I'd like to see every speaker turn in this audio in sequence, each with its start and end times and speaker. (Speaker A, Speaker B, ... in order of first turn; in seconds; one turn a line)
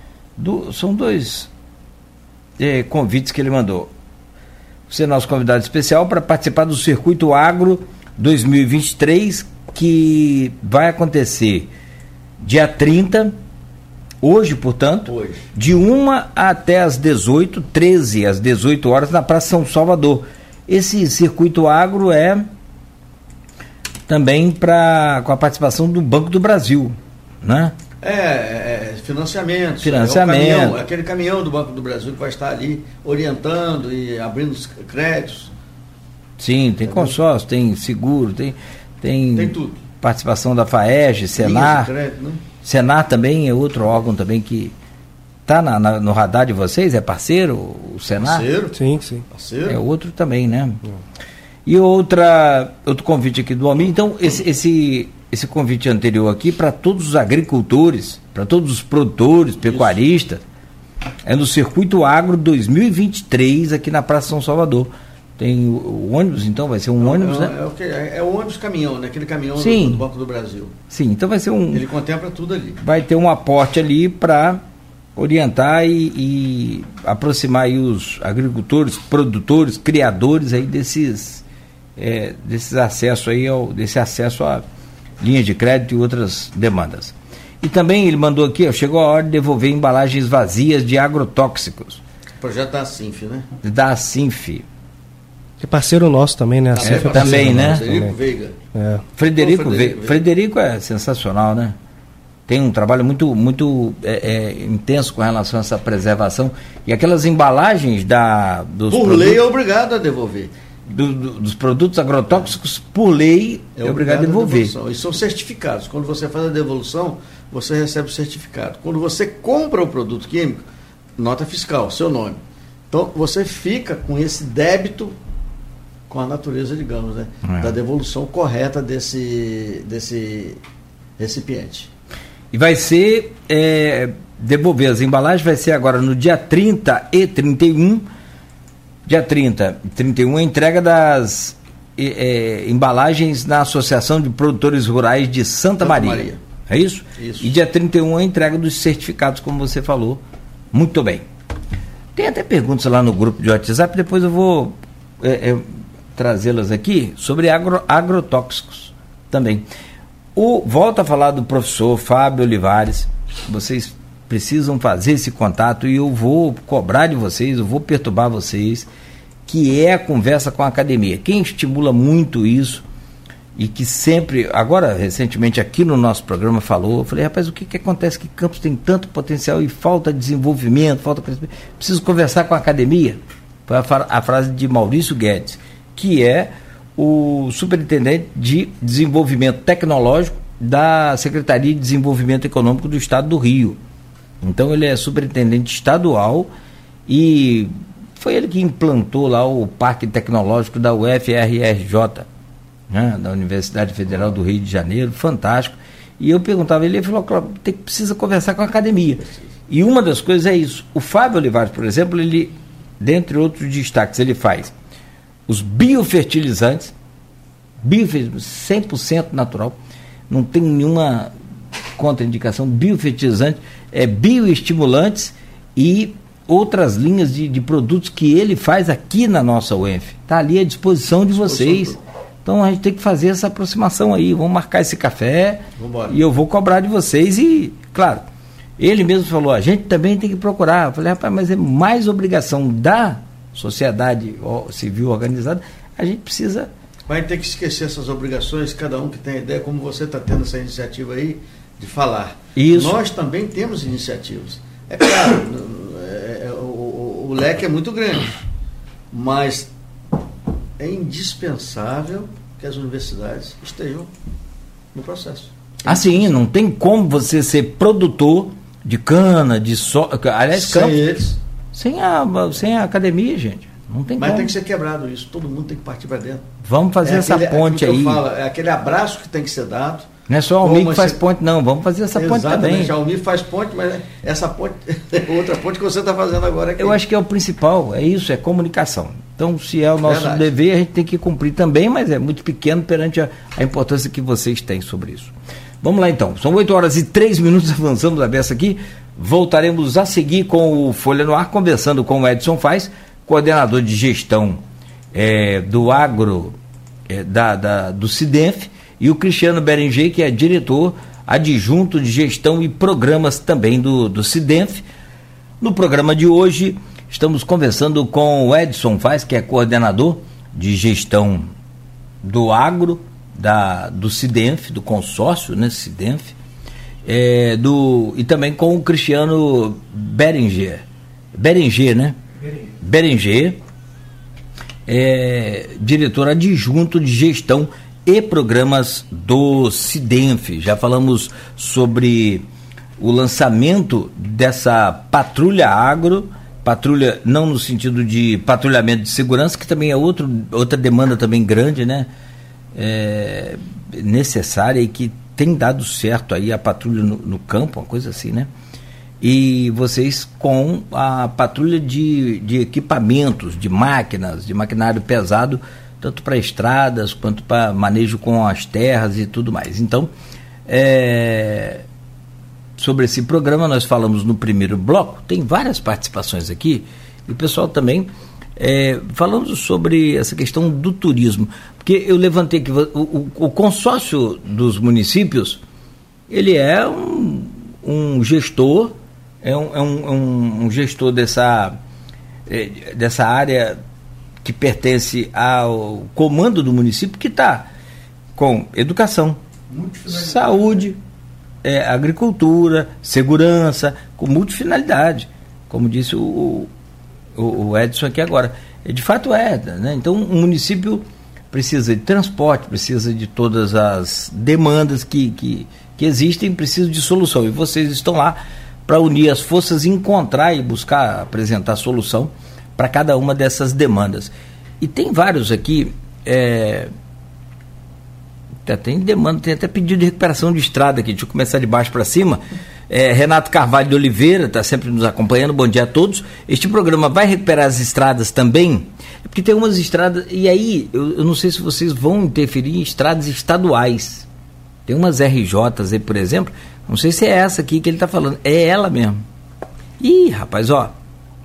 Speaker A: 0.4-1.5
Speaker A: 2.6-3.9
Speaker A: 4.9-11.7
Speaker A: 12.4-13.3
Speaker A: 14.2-22.5
Speaker B: 15.1-15.4
Speaker A: 24.1-27.7
Speaker B: 28.0-35.5
Speaker A: 29.8-30.8
Speaker A: 36.4-41.9
Speaker B: 36.9-37.2
Speaker B: 39.4-39.8
Speaker B: 41.4-42.4
Speaker A: 42.6-44.7
Speaker A: 45.5-48.5
Speaker B: 48.2-48.8
Speaker C: 48.7-49.2
Speaker B: 49.3-49.8
Speaker A: 49.7-50.8
Speaker A: 51.7-60.4
Speaker B: 59.6-60.0
Speaker A: 61.2-67.5
Speaker B: 67.0-70.7
Speaker A: 69.6-70.0
Speaker A: 70.9-71.9
Speaker B: 71.7-72.8
Speaker A: 72.8-74.6
Speaker A: 75.2-81.4
Speaker A: 82.0-84.6
Speaker A: 85.2-92.0
Speaker B: 92.4-93.5
Speaker A: 93.6-94.7
Speaker C: 95.6-98.1
Speaker B: 96.7-98.6
Speaker A: 96.8-97.9
Speaker C: 98.7-99.0
Speaker A: 99.2-101.8
Speaker B: 99.4-100.2
Speaker A: 102.5-109.4
Speaker B: 108.9-110.5
Speaker A: 110.9-114.7
Speaker B: 113.8-120.6
Speaker B: 121.2-122.4
Speaker B: 122.9-125.2
Speaker B: 126.1-130.6
Speaker A: 127.4-127.8
Speaker B: 131.2-131.9
Speaker A: 132.5-138.1
Speaker A: 139.1-151.3
Speaker B: 145.8-146.4
Speaker B: 147.2-147.6
Speaker A: 152.2-155.6
Speaker A: 156.2-159.7
Speaker A: 160.4-168.9
Speaker A: 169.5-172.8
Speaker A: 173.6-193.8
Speaker A: 194.4-196.5
Speaker A: 197.1-202.3
Speaker A: 202.9-214.7
Speaker A: 215.5-216.9
Speaker A: 217.8-219.8
Speaker A: 220.3-221.3
Speaker A: 222.0-238.2
Speaker B: 231.4-232.0
Speaker B: 235.8-236.2
Speaker A: 238.8-246.7
Speaker B: 247.1-258.4
Speaker A: 252.6-253.0
Speaker B: 259.1-259.7
Speaker B: 260.8-264.1
Speaker B: 264.9-266.3
Speaker A: 265.9-271.0
Speaker B: 270.5-271.4
Speaker A: 271.7-274.5
Speaker B: 274.2-276.5
Speaker A: 276.6-278.2
Speaker B: 277.0-280.1
Speaker A: 280.3-282.9
Speaker B: 280.6-281.2
Speaker B: 282.2-287.0
Speaker A: 286.8-304.6
Speaker B: 290.0-290.5
Speaker A: 305.1-306.6
Speaker A: 307.1-314.8
Speaker A: 315.6-321.5
Speaker A: 322.2-326.4
Speaker A: 327.1-330.8
Speaker A: 331.4-332.2
Speaker A: 332.8-333.6
Speaker A: 334.9-342.4
Speaker A: 343.0-352.1
Speaker A: 352.8-358.5
Speaker A: 359.2-370.1
Speaker A: 370.7-371.8
Speaker A: 372.8-385.6
Speaker A: 386.3-391.8
Speaker A: 392.5-393.8
Speaker A: 394.4-397.7
Speaker A: 398.4-399.4
Speaker B: 399.7-400.8
Speaker A: 400.1-401.0
Speaker A: 401.6-406.7
Speaker A: 407.4-426.9
Speaker A: 428.6-444.3
Speaker A: 444.9-449.2
Speaker A: 450.0-450.9